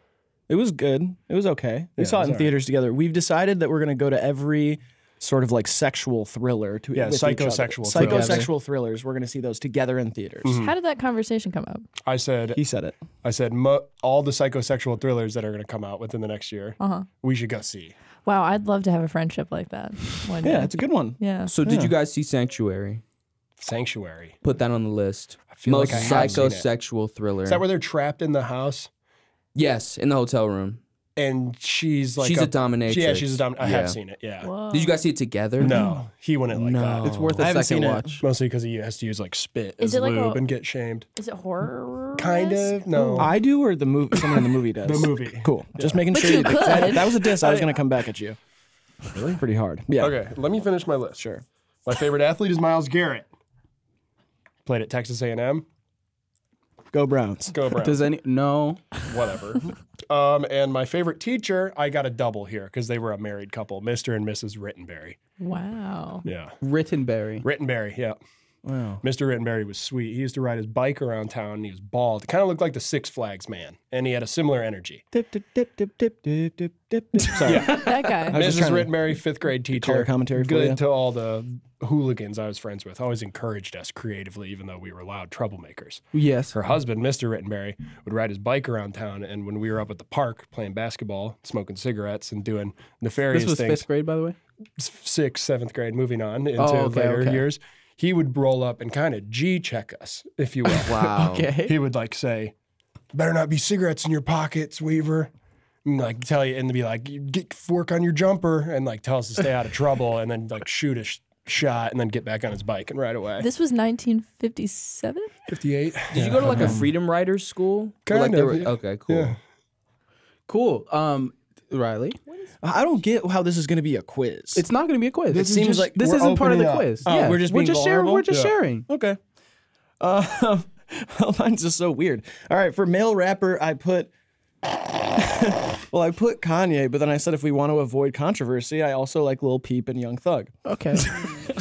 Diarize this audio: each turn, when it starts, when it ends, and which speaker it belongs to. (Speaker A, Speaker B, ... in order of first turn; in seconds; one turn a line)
Speaker A: 0.5-10.5
Speaker B: 2.0-2.5
Speaker B: 6.9-8.5
Speaker C: 7.9-8.5
Speaker B: 10.4-10.7
Speaker D: 10.4-11.8
Speaker B: 12.0-12.6
Speaker A: 12.5-12.9
Speaker B: 13.2-17.9
Speaker D: 16.8-17.1
Speaker D: 18.2-21.5
Speaker A: 20.4-21.9
Speaker E: 21.5-23.0
Speaker B: 23.6-24.4
Speaker E: 24.4-27.6
Speaker B: 25.5-26.7
Speaker A: 25.8-26.4
Speaker B: 27.4-28.9
Speaker E: 29.5-30.8
Speaker B: 31.2-34.5
Speaker E: 32.2-34.0
Speaker D: 34.4-35.0
Speaker E: 34.7-35.8
Speaker B: 35.6-37.1
Speaker E: 36.5-37.5
Speaker C: 37.0-38.2
Speaker A: 37.4-38.2
Speaker B: 38.2-41.1
Speaker D: 39.8-40.4
Speaker D: 41.2-43.3
Speaker B: 42.2-43.3
Speaker A: 43.2-48.4
Speaker B: 44.8-47.7
Speaker D: 46.1-47.4
Speaker A: 49.1-50.2
Speaker B: 50.0-51.2
Speaker A: 51.2-51.4
Speaker B: 51.9-53.3
Speaker B: 54.6-55.6
Speaker A: 56.9-57.5
Speaker B: 57.5-58.1
Speaker C: 57.8-58.8
Speaker B: 59.0-65.2
Speaker D: 65.4-66.2
Speaker B: 66.2-66.6
Speaker C: 66.6-67.4
Speaker B: 67.4-68.2
Speaker A: 68.6-69.0
Speaker B: 69.0-75.0
Speaker A: 75.1-79.1
Speaker B: 77.4-93.9
Speaker D: 77.7-78.4
Speaker A: 79.7-80.8
Speaker C: 86.1-86.5
Speaker C: 93.3-94.4
Speaker B: 94.8-101.0
Speaker C: 96.6-97.4
Speaker C: 100.8-101.8
Speaker E: 100.8-101.5
Speaker B: 101.6-102.5
Speaker B: 103.1-105.3
Speaker B: 105.8-113.5
Speaker D: 113.4-115.3
Speaker B: 115.5-116.8
Speaker E: 116.1-119.3
Speaker A: 116.5-116.9
Speaker B: 118.0-119.4
Speaker C: 120.5-122.2
Speaker A: 122.6-124.7
Speaker C: 124.5-128.8
Speaker B: 125.3-127.0
Speaker A: 125.4-126.0
Speaker A: 127.0-128.3
Speaker A: 128.9-129.2
Speaker A: 130.0-134.1
Speaker A: 135.1-140.5
Speaker C: 140.6-141.3